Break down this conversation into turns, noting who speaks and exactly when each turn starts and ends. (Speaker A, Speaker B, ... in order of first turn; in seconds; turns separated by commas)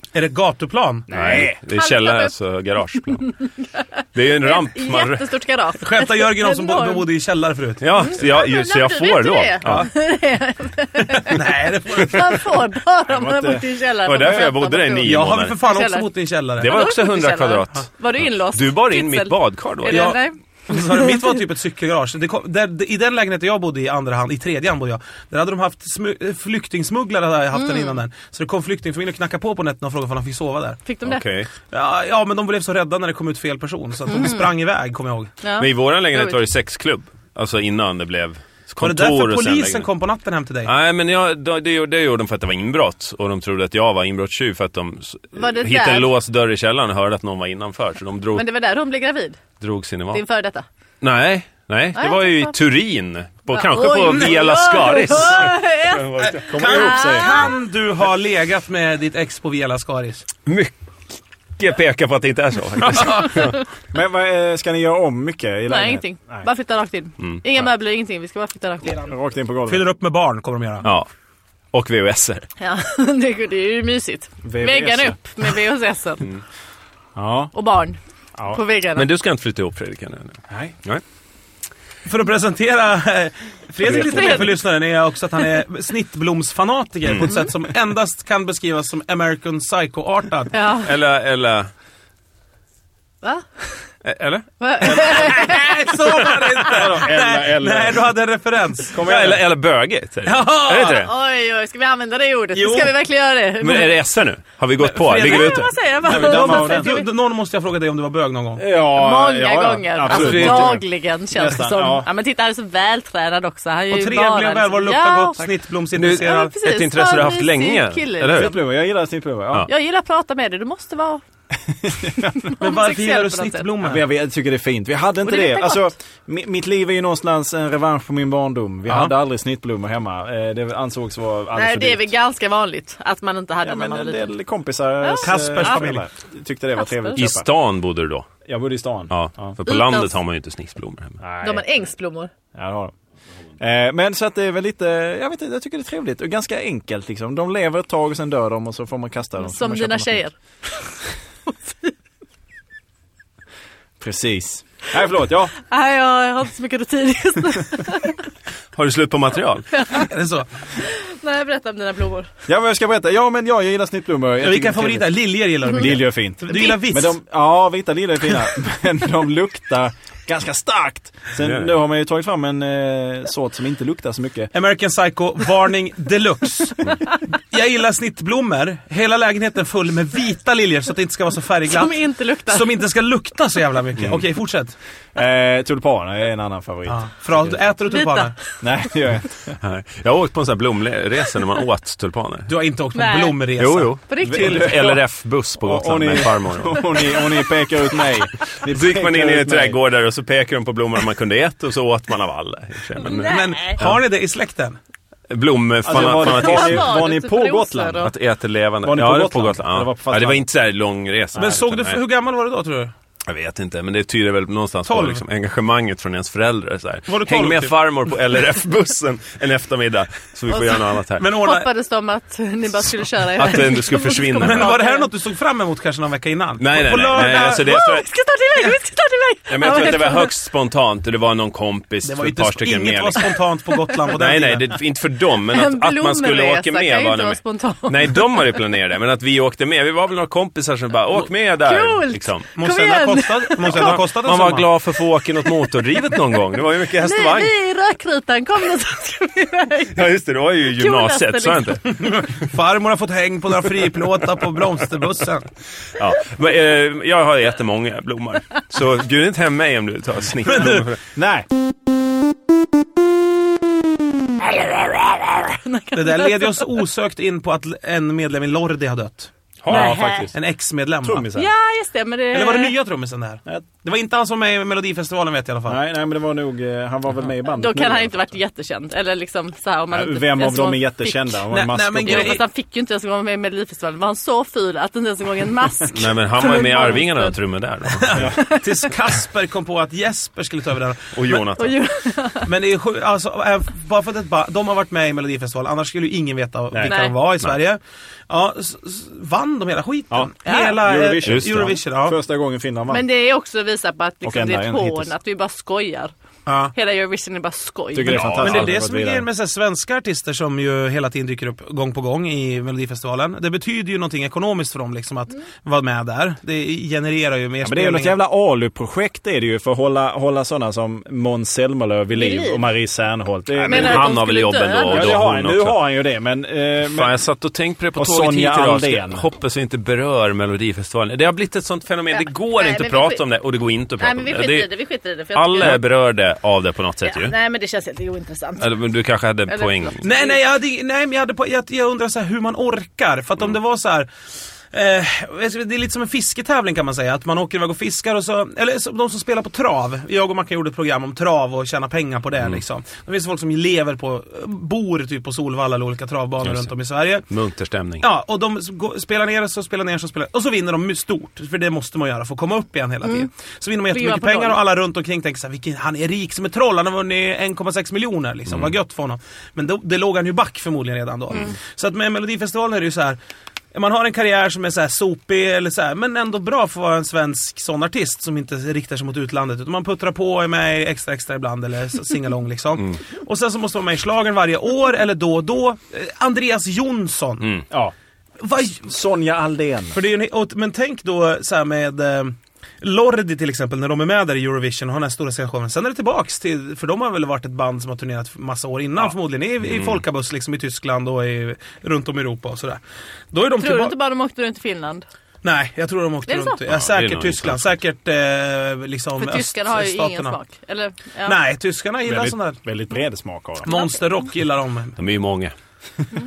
Speaker A: 0.1-1.1, Speaker B: 1.1-1.6, Speaker C: 1.1-3.3, Speaker D: 1.7-2.3, Speaker D: 3.2-3.8, Speaker C: 4.1-5.3, Speaker D: 4.4-7.1, Speaker A: 5.8-7.9, Speaker C: 7.8-9.9, Speaker D: 7.9-21.1, Speaker A: 11.2-12.5, Speaker B: 13.1-13.7, Speaker C: 14.0-15.6, Speaker A: 15.0-16.8, Speaker C: 16.6-17.9, Speaker C: 18.5-20.2, Speaker A: 19.9-30.8, Speaker D: 27.5-28.0, Speaker D: 30.8-31.2, Speaker C: 31.0-31.5, Speaker A: 31.7-35.3, Speaker D: 34.1-34.5, Speaker D: 35.4-36.4, Speaker C: 35.6-39.9, Speaker A: 38.8-40.7, Speaker C: 40.6-48.4, Speaker D: 45.3-46.1, Speaker D: 48.3-49.4, Speaker C: 49.6-50.2, Speaker D: 50.1-50.6, Speaker C: 51.0-56.6, Speaker D: 51.9-52.5, Speaker D: 53.5-57.5, Speaker A: 56.2-60.2, Speaker B: 56.4-57.5, Speaker C: 60.5-60.7, Speaker C: 61.6-63.6, Speaker A: 62.8-63.4, Speaker D: 63.2-63.5, Speaker B: 63.9-66.5, Speaker D: 65.7-69.1, Speaker B: 69.0-69.9, Speaker A: 69.7-70.9, Speaker C: 71.7-72.5, Speaker D: 72.6-76.2, Speaker B: 74.4-75.2, Speaker B: 77.2-77.5, Speaker D: 77.5-79.1, Speaker B: 78.3-78.6, Speaker C: 78.9-81.0, Speaker B: 80.5-80.7, Speaker A: 82.0-90.6, Speaker D: 83.8-84.5, Speaker C: 87.0-87.3, Speaker D: 90.5-90.9, Speaker C: 90.8-91.7, Speaker D: 93.2-93.8, Speaker C: 94.0-95.1, Speaker D: 94.6-95.8, Speaker A: 95.0-99.4, Speaker B: 96.6-98.1, Speaker B: 98.9-99.4, Speaker C: 99.0-101.1, Speaker A: 100.2-101.0, Speaker D: 100.8-103.9, Speaker A: 102.5-102.9, Speaker C: 103.6-105.7, Speaker A: 104.8-108.6, Speaker D: 105.2-107.1, Speaker B: 106.0-106.9, Speaker B: 108.6-112.1, Speaker D: 108.9-115.5, Speaker C: 110.0-110.8, Speaker A: 113.9-116.5, Speaker C: 115.9-118.5, Speaker D: 116.1-118.5, Speaker B: 118.3-119.7, Speaker D: 119.7-121.2, Speaker B: 121.7-122.5, Speaker D: 122.2-123.7, Speaker A: 122.6-124.0, Speaker B: 123.8-132.1, Speaker D: 125.2-125.9, Speaker A: 128.9-129.1, Speaker D: 131.5-134.3, Speaker B: 133.6-137.4, Speaker D: 135.0-135.8, Speaker A: 135.2-136.1, Speaker D: 136.8-137.2, Speaker C: 137.2-138.3, Speaker B: 138.5-139.5, Speaker C: 139.1-141.2, Speaker D: 139.7-140.1, Speaker B: 141.2-141.7, Speaker D: 141.4-142.3, Speaker B: 142.5-142.9, Speaker B: 143.6-150.2, Speaker D: 149.4-151.9, Speaker B: 154.0-155.5, Speaker D: 155.6-158.2, Speaker C: 158.7-159.7, Speaker D: 159.7-160.1, Speaker A: 160.0-160.5, Speaker D: 160.7-162.3, Speaker B: 162.5-174.5, Speaker A: 164.4-167.2, Speaker C: 171.4-171.7, Speaker A: 174.5-184.7, Speaker D: 181.7-182.8, Speaker B: 185.1-187.6, Speaker A: 186.9-188.3, Speaker D: 187.9-188.4, Speaker B: 188.6-189.6, Speaker C: 189.6-192.5, Speaker A: 192.5-193.9, Speaker D: 192.9-193.4, Speaker C: 193.6-197.2, Speaker D: 194.1-194.8, Speaker B: 194.2-195.0, Speaker B: 195.6-199.8, Speaker D: 196.9-197.4, Speaker C: 198.7-204.0, Speaker D: 203.0-203.8, Speaker A: 203.2-204.8, Speaker C: 205.3-206.9, Speaker B: 205.8-208.1, Speaker D: 205.9-208.1, Speaker C: 208.0-212.0, Speaker B: 208.8-210.4, Speaker A: 211.3-212.9, Speaker C: 213.3-221.3, Speaker A: 214.8-215.2, Speaker A: 217.1-217.7, Speaker D: 220.5-225.1, Speaker A: 221.2-221.7, Speaker C: 223.4-224.7, Speaker A: 224.4-227.7, Speaker C: 226.6-228.1, Speaker D: 227.4-230.3, Speaker C: 229.5-233.4, Speaker A: 232.0-234.7, Speaker C: 234.1-242.5, Speaker D: 235.5-238.4, Speaker D: 241.6-244.0, Speaker A: 242.6-244.7, Speaker C: 243.6-247.5, Speaker D: 247.0-250.1, Speaker C: 249.9-252.3, Speaker D: 250.7-251.8, Speaker A: 251.9-255.5, Speaker C: 255.9-261.0, Speaker A: 260.5-260.9, Speaker B: 261.1-261.4, Speaker D: 265.4-266.8, Speaker A: 265.9-269.3, Speaker C: 269.6-270.2, Speaker B: 269.7-270.3, Speaker D: 269.7-270.3, Speaker A: 270.3-271.3, Speaker B: 271.0-271.5, Speaker D: 271.3-272.8, Speaker A: 272.3-275.8, Speaker B: 275.6-278.2, Speaker D: 277.5-287.3, Speaker B: 279.9-282.4, Speaker A: 281.5-282.4, Speaker C: 285.9-288.3, Speaker A: 288.0-291.5, Speaker B: 288.1-288.4, Speaker D: 288.4-288.6, Speaker C: 291.1-291.8, Speaker D: 291.5-292.5, Speaker A: 292.4-302.2, Speaker B: 296.7-297.0, Speaker D: 296.9-297.1, Speaker B: 300.1-303.0, Speaker D: 300.4-300.8, Speaker C: 301.2-301.8, Speaker D: 302.9-306.1, Speaker B: 304.2-305.1, Speaker A: 306.4-306.7, Speaker D: 306.7-308.4, Speaker B: 307.9-309.3, Speaker C: 308.0-308.7, Speaker A: 308.4-318.2, Speaker B: 317.6-324.1, Speaker D: 322.1-322.7, Speaker C: 323.6-325.8, Speaker D: 323.6-325.2, Speaker B: 324.9-327.2, Speaker C: 326.9-334.7, Speaker B: 327.9-329.2, Speaker D: 332.1-333.2, Speaker D: 334.0-335.8, Speaker C: 335.3-337.3, Speaker D: 337.0-338.8, Speaker C: 338.6-340.0, Speaker D: 339.5-340.4, Speaker A: 340.0-344.1, Speaker A: 344.7-357.3, Speaker C: 356.4-356.7, Speaker C: 357.3-358.1, Speaker A: 358.0-373.2, Speaker D: 363.9-364.6, Speaker C: 368.5-368.7, Speaker A: 373.7-387.6, Speaker A: 388.4-388.9, Speaker B: 388.8-390.0, Speaker A: 389.9-402.8, Speaker C: 399.6-400.0, Speaker A: 403.3-403.9, Speaker D: 403.6-405.0, Speaker A: 405.4-410.4, Speaker D: 406.3-406.6, Speaker C: 406.6-407.8, Speaker D: 409.2-411.4, Speaker A: 411.2-412.6, Speaker B: 412.0-413.7, Speaker A: 413.6-415.0, Speaker D: 413.7-414.0, Speaker C: 415.0-415.5